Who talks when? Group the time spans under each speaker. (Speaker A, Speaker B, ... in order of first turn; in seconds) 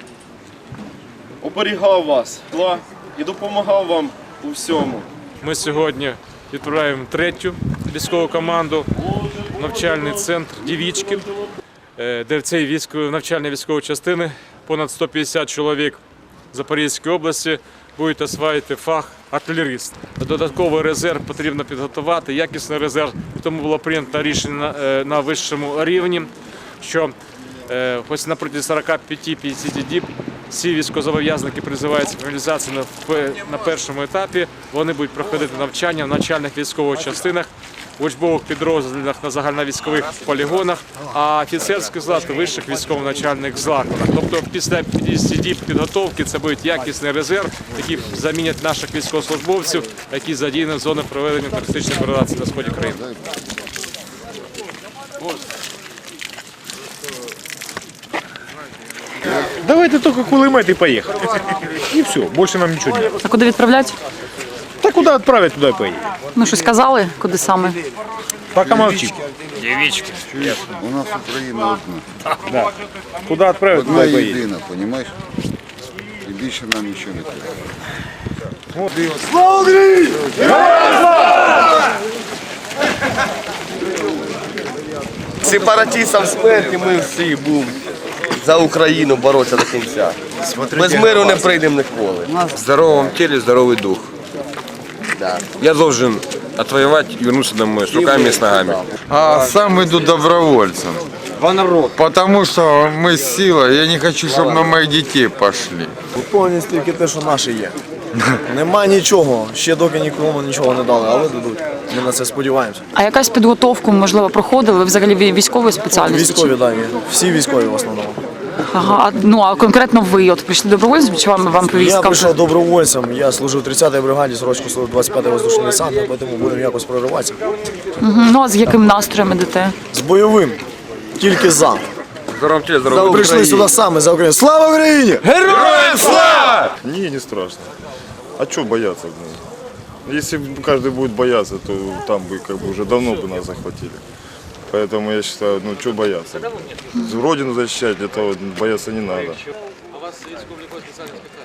Speaker A: 1.4-5.0
Speaker B: 5.4-8.9, 9.5-11.3, 12.0-16.0, 16.5-27.1, 27.7-53.1
Speaker C: 59.5-61.3, 61.9-63.1, 64.8-66.0, 68.5-69.2, 73.3-74.4
Speaker D: 63.2-63.9, 66.3-67.8, 113.0-116.4, 118.7-122.2, 128.0-129.7
Speaker E: 68.7-69.0, 70.3-72.0, 73.7-75.1, 76.2-77.5, 78.9-80.6
Speaker F: 85.4-87.8, 88.3-92.5, 95.2-95.5, 97.8-99.0, 132.8-133.6, 135.3-136.5
Speaker G: 92.6-94.1, 95.6-98.8, 101.4-101.9, 132.4-132.8
Speaker H: 99.1-101.0, 101.9-105.9
Speaker I: 106.2-107.8, 108.5-112.8, 115.8-118.2, 121.8-127.4, 129.9-130.6, 131.2-131.8, 133.1-135.3
Speaker J: 136.8-137.7, 138.4-139.4, 140.1-144.0, 144.7-149.4